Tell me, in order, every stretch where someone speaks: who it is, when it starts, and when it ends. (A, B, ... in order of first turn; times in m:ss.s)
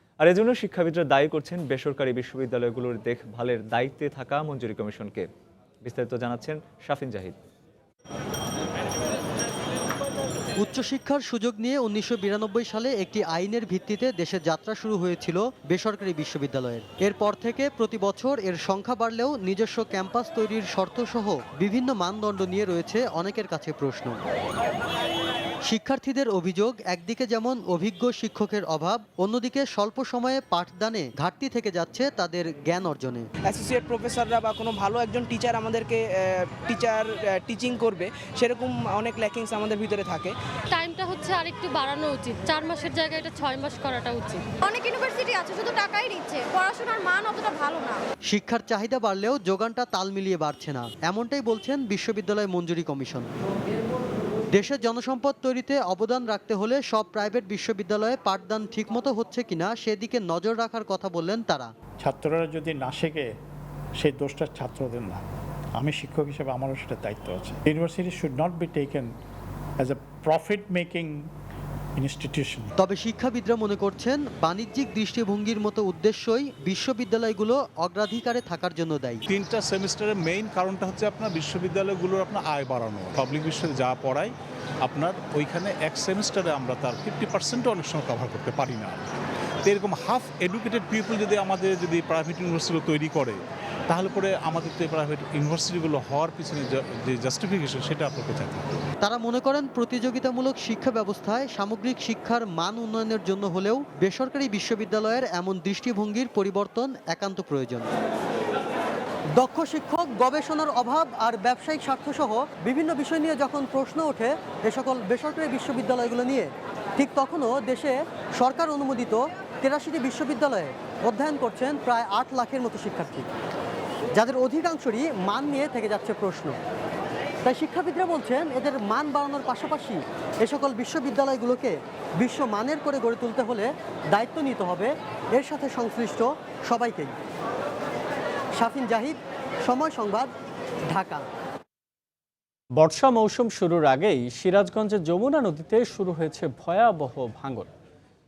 0:00.2-0:05.3 A
0:05.8-0:07.4 A
0:10.6-0:24.2 B
0:25.7-0:33.2 B
0:33.4-0:40.3 C
0:40.7-0:44.4 D
0:44.6-0:47.9 E
0:48.3-0:53.3 B
0:54.5-1:01.7 B
1:02.0-1:03.3 F
1:04.0-1:05.2 F
1:05.8-1:09.1 F
1:09.8-1:11.3 F
1:12.0-1:12.7 F
1:12.8-1:19.2 B
1:19.3-1:24.3 G
1:24.9-1:29.0 G
1:29.7-1:33.4 G
1:33.9-1:38.8 G
1:39.0-1:47.9 B
1:49.4-2:03.3 B
2:04.2-2:06.6 B
2:07.4-2:17.2 B
2:18.6-2:20.3 B
2:20.9-2:21.2 B
2:22.7-2:27.7 H